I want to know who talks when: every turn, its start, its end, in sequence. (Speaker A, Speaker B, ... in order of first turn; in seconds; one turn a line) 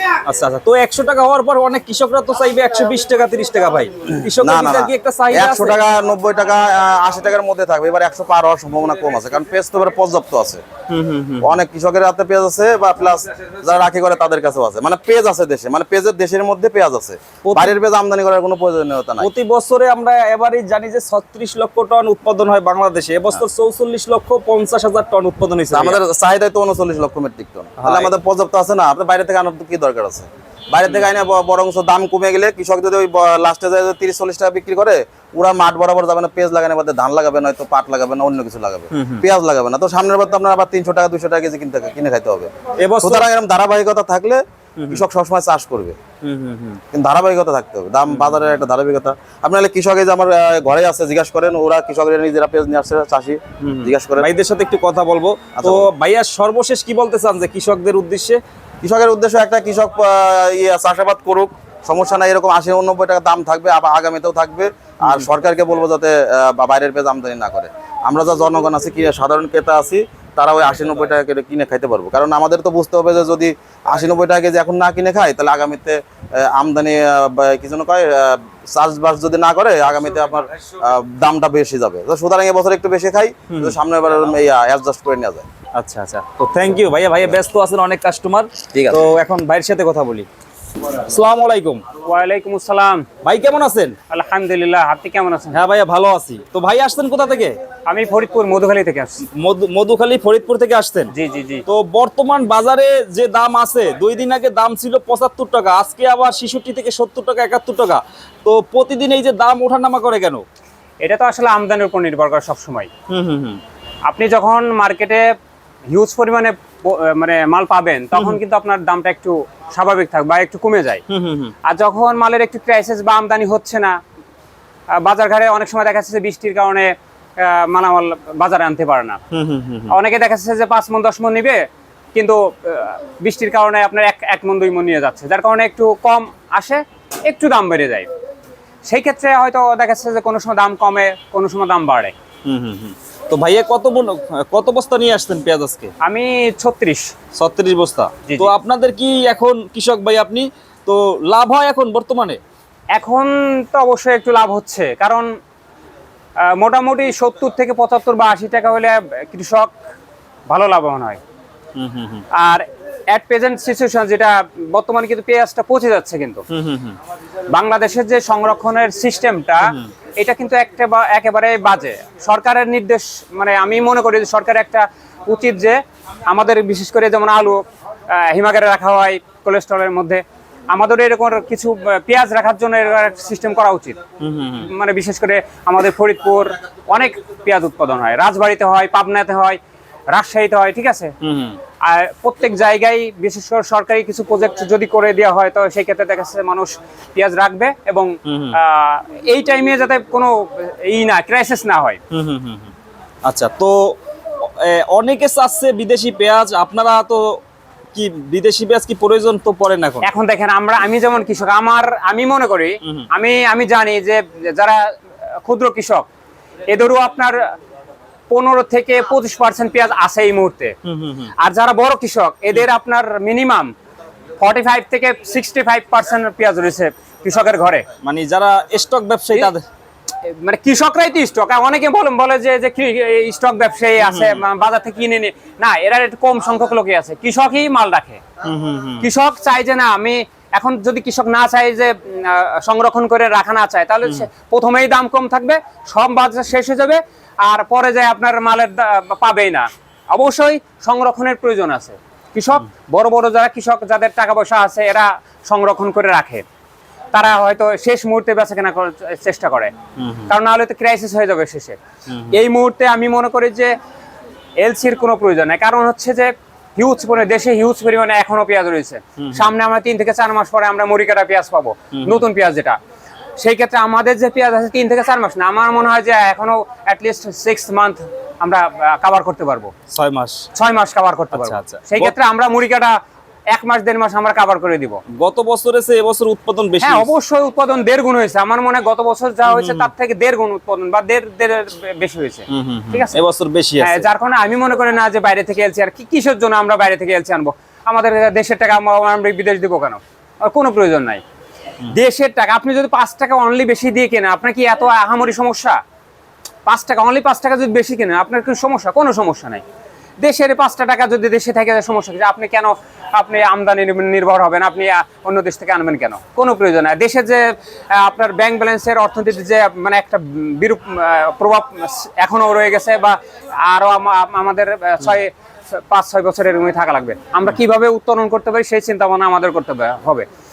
Speaker A: 0.2-5.8
Speaker B: 4.3-10.6
Speaker A: 10.9-11.6
Speaker B: 11.4-19.3
Speaker A: 17.4-17.7
Speaker A: 19.2-26.0
Speaker B: 25.7-42.5
Speaker A: 27.8-28.1
Speaker A: 38.9-39.2
Speaker A: 42.8-43.3
Speaker B: 43.0-46.0
Speaker A: 44.8-45.0
Speaker A: 46.2-46.8
Speaker B: 46.9-54.3
Speaker A: 48.1-48.4
Speaker A: 53.6-58.4
Speaker B: 55.5-55.9
Speaker B: 58.8-85.5
Speaker A: 83.5-83.8
Speaker A: 85.8-90.3
Speaker B: 88.7-89.1
Speaker A: 91.0-91.8
Speaker C: 92.0-93.0
Speaker A: 93.2-93.9
Speaker C: 94.1-95.6
Speaker A: 95.5-97.6
Speaker C: 97.8-99.2
Speaker A: 99.4-101.1
Speaker C: 101.1-101.6
Speaker A: 101.7-110.4
Speaker C: 111.0-112.9
Speaker A: 113.1-113.6
Speaker C: 114.1-115.2
Speaker C: 115.9-121.0
Speaker A: 121.1-121.5
Speaker C: 121.7-124.0
Speaker C: 124.9-129.2
Speaker A: 129.3-129.9
Speaker C: 129.9-138.1
Speaker C: 138.8-142.1
Speaker A: 142.4-145.9
Speaker C: 146.0-147.1
Speaker A: 147.3-152.4
Speaker C: 148.3-148.5
Speaker C: 152.9-155.3
Speaker C: 156.4-159.7
Speaker C: 160.5-161.2
Speaker A: 161.8-162.2
Speaker C: 162.3-166.4
Speaker A: 166.5-166.9
Speaker C: 167.5-184.0
Speaker A: 184.2-184.7
Speaker C: 184.6-189.6
Speaker C: 190.1-191.1
Speaker A: 191.2-191.6
Speaker C: 191.8-202.0
Speaker A: 198.2-198.6
Speaker A: 202.1-202.7
Speaker A: 203.2-203.9
Speaker A: 204.4-207.4
Speaker A: 207.9-210.1
Speaker C: 210.0-214.9
Speaker C: 215.4-216.1
Speaker C: 216.7-217.4
Speaker C: 218.3-220.7
Speaker A: 220.8-221.3
Speaker C: 221.4-223.7
Speaker C: 224.4-227.8
Speaker A: 228.0-229.6
Speaker C: 230.2-238.2
Speaker A: 234.0-234.4
Speaker A: 238.4-239.1
Speaker C: 239.0-256.4
Speaker C: 257.1-259.7
Speaker A: 260.0-260.3
Speaker C: 260.3-261.8
Speaker A: 262.1-262.4
Speaker C: 262.3-263.7
Speaker C: 264.6-272.8
Speaker A: 269.2-269.5
Speaker A: 271.9-272.2
Speaker C: 273.4-279.7
Speaker A: 279.9-280.4
Speaker C: 280.5-283.0
Speaker A: 281.3-282.1
Speaker C: 283.5-285.0
Speaker A: 285.1-287.1
Speaker C: 286.8-293.2
Speaker A: 289.4-289.9
Speaker A: 292.5-294.1
Speaker C: 293.8-301.2
Speaker C: 301.9-305.8
Speaker C: 306.6-309.6
Speaker C: 310.2-330.2